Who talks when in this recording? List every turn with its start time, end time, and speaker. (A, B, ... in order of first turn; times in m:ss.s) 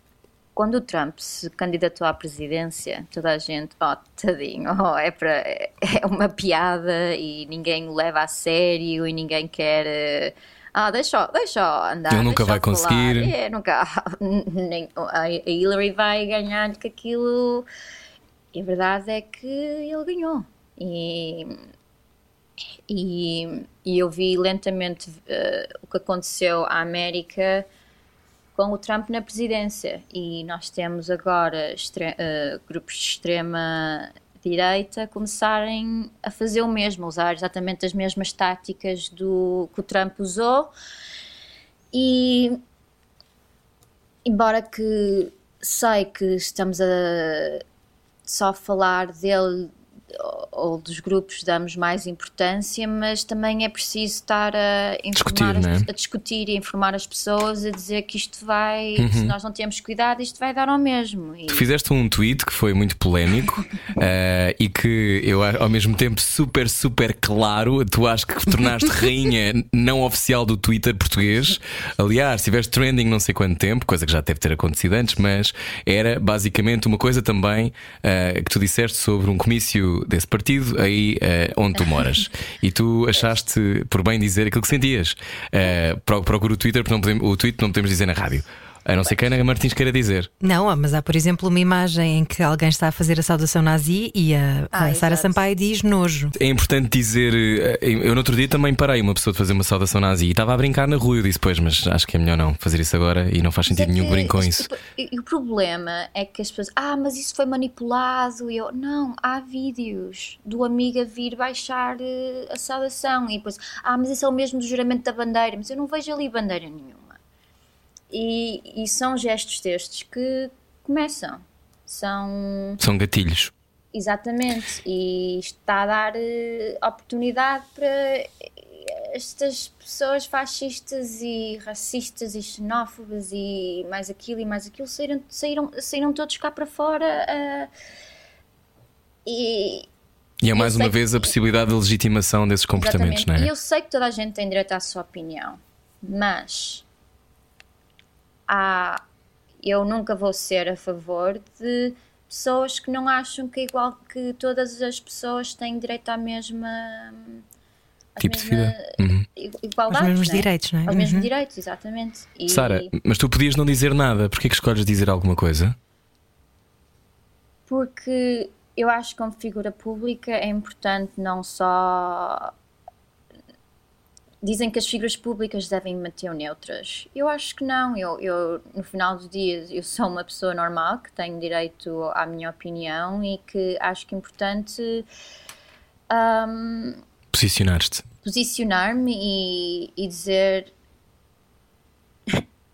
0:00.6-0:17.7 A
0:12.1-0:13.3 B
0:18.5-0:21.6 A
0:22.9-0:27.6 A
0:28.6-0:40.7 A
0:41.9-0:42.6 A
0:44.2-0:47.6 A
0:48.3-1:01.7 A
0:55.2-0:55.9 B
0:59.0-0:59.3 B
1:01.5-1:30.3 B
1:30.4-1:36.3 C
1:34.7-1:35.4 A
1:36.3-1:44.7 B
1:43.7-1:57.2 A
1:58.1-2:02.8 A
2:02.8-2:03.5 B
2:03.9-2:17.7 A
2:19.3-2:19.9 A
2:20.4-2:23.5 B
2:20.5-2:21.0 A
2:22.8-2:26.8 A
2:28.5-2:29.0 A
2:29.6-2:37.4 A
2:38.2-2:42.9 A
2:38.2-2:39.3 B
2:39.9-2:41.3 C
2:42.5-2:45.8 B
2:47.7-2:52.5 A
2:54.4-3:05.0 A
3:06.1-3:07.0 A
3:07.3-3:08.0 B
3:08.2-3:10.7 A